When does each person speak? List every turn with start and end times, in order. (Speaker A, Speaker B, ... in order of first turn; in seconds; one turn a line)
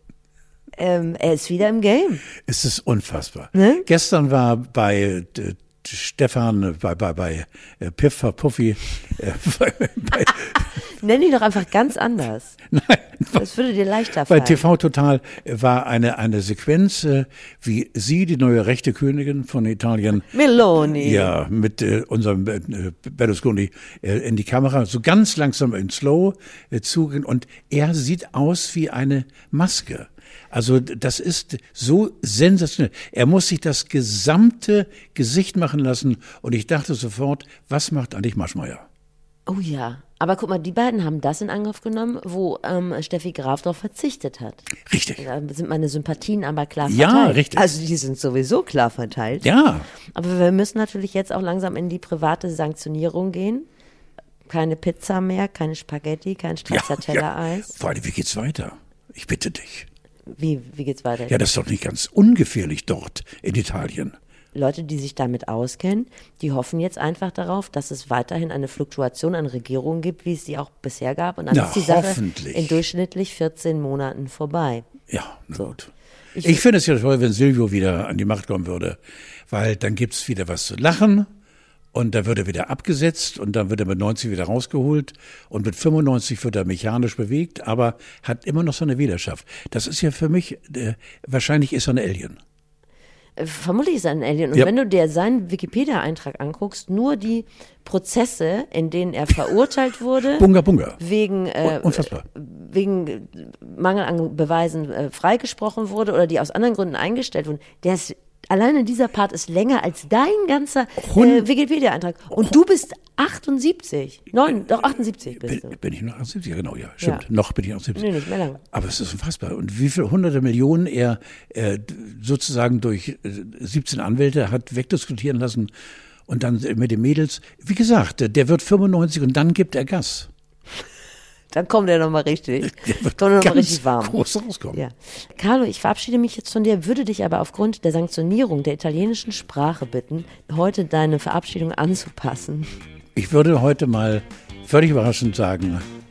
Speaker A: 0.8-2.2
Speaker B: 2.4-10.7
Speaker A: 3.5-3.9
Speaker A: 10.5-12.6
Speaker B: 12.7-13.4
Speaker A: 13.3-14.7
Speaker B: 14.2-20.3
Speaker A: 20.3-21.3
Speaker B: 20.9-38.9
Speaker A: 39.5-49.5
Speaker B: 44.8-45.2
Speaker B: 46.9-47.6
Speaker B: 49.4-49.9
Speaker A: 50.1-53.7
Speaker A: 54.5-57.8
Speaker B: 56.7-59.9
Speaker A: 60.3-61.4
Speaker B: 61.3-64.2
Speaker A: 64.5-74.8
Speaker B: 71.5-72.8
Speaker B: 75.1-75.9
Speaker A: 76.3-76.6
Speaker B: 76.4-79.0
Speaker B: 79.5-81.3
Speaker B: 81.9-92.4
Speaker A: 93.4-100.5
Speaker B: 100.3-101.0
Speaker A: 101.0-115.8
Speaker B: 101.6-102.2
Speaker B: 111.0-111.5
Speaker B: 115.4-118.1
Speaker A: 117.9-118.6
Speaker B: 118.7-125.7
Speaker B: 126.3-130.3
Speaker A: 131.5-134.2
Speaker B: 132.6-134.8
Speaker A: 134.7-142.7
Speaker B: 143.2-145.8